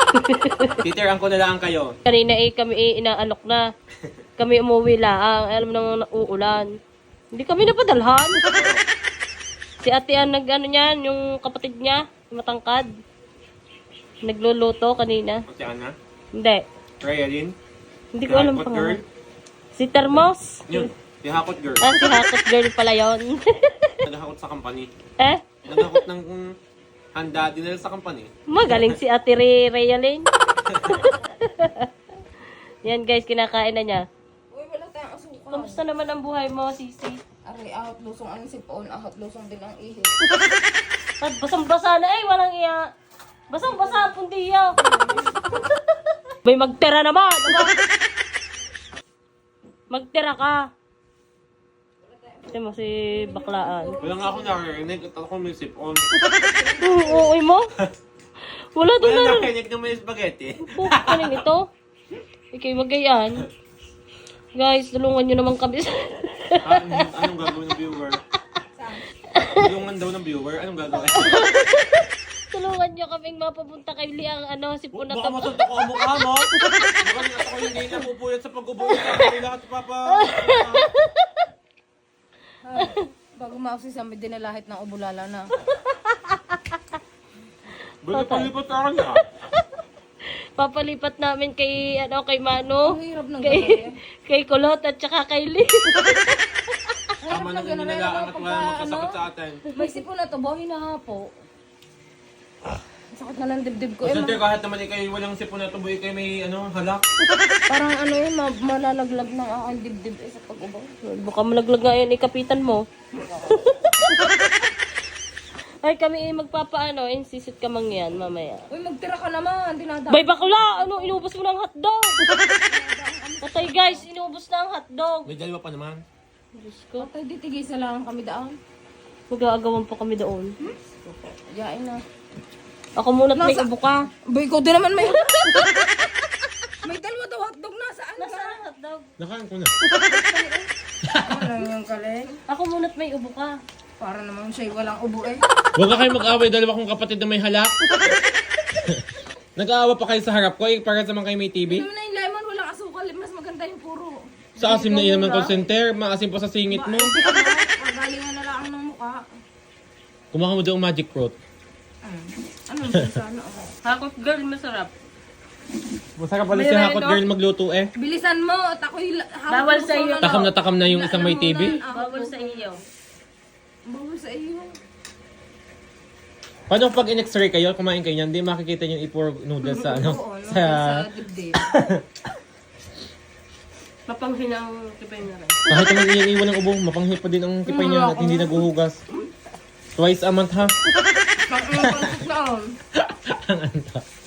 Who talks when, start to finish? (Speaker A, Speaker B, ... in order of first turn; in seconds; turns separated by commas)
Speaker A: 0.2-0.8, Speaker B: 0.8-1.9, Speaker A: 2.1-3.6, Speaker A: 4.4-6.7, Speaker A: 7.3-8.6, Speaker B: 8.5-8.8, Speaker A: 9.8-12.9, Speaker A: 14.2-15.4, Speaker B: 15.5-15.9, Speaker A: 16.4-16.6, Speaker B: 17.0-17.5, Speaker A: 18.1-19.0, Speaker B: 18.3-19.0, Speaker A: 19.7-20.9, Speaker B: 20.7-21.9, Speaker A: 21.8-23.9, Speaker B: 24.1-24.9, Speaker A: 25.2-26.0, Speaker B: 25.7-26.4, Speaker B: 27.1-28.9, Speaker A: 28.5-30.3, Speaker B: 30.7-31.0, Speaker A: 30.9-31.9, Speaker A: 32.8-34.0, Speaker C: 34.5-35.8, Speaker A: 35.5-37.2, Speaker C: 37.5-40.2, Speaker A: 41.2-42.8, Speaker A: 43.5-44.7, Speaker C: 43.6-44.1, Speaker C: 44.8-45.6, Speaker A: 46.4-47.8, Speaker A: 49.9-50.6, Speaker A: 52.5-54.0, Speaker C: 53.1-54.6, Speaker B: 54.0-56.1, Speaker C: 56.3-57.3, Speaker A: 56.8-57.7, Speaker A: 58.8-59.5, Speaker B: 59.0-61.4, Speaker A: 60.6-61.6, Speaker A: 62.5-63.5, Speaker A: 64.5-67.0, Speaker B: 66.6-68.2, Speaker C: 68.8-69.0, Speaker A: 69.3-69.6, Speaker B: 69.6-71.4, Speaker A: 71.0-75.6, Speaker B: 74.9-76.5, Speaker A: 76.6-77.0, Speaker B: 77.0-80.9, Speaker A: 78.9-79.3, Speaker A: 80.1-81.4, Speaker C: 82.6-85.5, Speaker A: 85.7-86.8, Speaker B: 88.0-89.2, Speaker A: 88.1-88.5, Speaker A: 90.6-96.4, Speaker C: 92.8-93.9, Speaker C: 97.2-99.2, Speaker B: 97.3-99.6, Speaker C: 99.7-101.2, Speaker C: 103.2-104.4, Speaker B: 104.0-107.0, Speaker C: 107.7-110.9, Speaker A: 111.1-114.6, Speaker A: 115.8-118.6, Speaker C: 118.7-121.2, Speaker A: 120.1-122.2, Speaker C: 122.5-124.0, Speaker A: 123.4-125.3, Speaker B: 125.2-126.0, Speaker A: 126.5-127.1, Speaker C: 127.0-128.6, Speaker A: 129.3-130.5, Speaker C: 131.5-132.0, Speaker A: 133.0-134.0, Speaker C: 133.4-136.1, Speaker C: 136.8-138.6, Speaker A: 138.2-139.1, Speaker B: 139.2-139.7, Speaker C: 139.9-140.7, Speaker B: 141.1-141.4, Speaker C: 141.2-142.4, Speaker A: 142.5-143.5, Speaker C: 144.0-145.4, Speaker B: 145.8-147.8, Speaker B: 148.8-151.9, Speaker C: 151.7-154.2, Speaker B: 154.6-157.1, Speaker A: 154.6-155.6, Speaker C: 156.7-159.2, Speaker B: 160.3-161.4, Speaker C: 162.0-163.7, Speaker A: 163.8-164.9, Speaker B: 166.2-167.9, Speaker A: 166.5-167.2, Speaker C: 168.0-172.8, Speaker A: 169.5-170.4, Speaker B: 170.2-171.8, Speaker A: 171.6-172.8, Speaker C: 173.9-174.7, Speaker B: 176.7-181.1, Speaker C: 179.7-181.8, Speaker B: 181.6-182.0, Speaker A: 184.1-185.6, Speaker B: 185.7-189.0, Speaker C: 187.7-188.6, Speaker B: 190.0-190.7, Speaker C: 191.5-192.7, Speaker B: 191.8-192.2, Speaker B: 193.0-194.0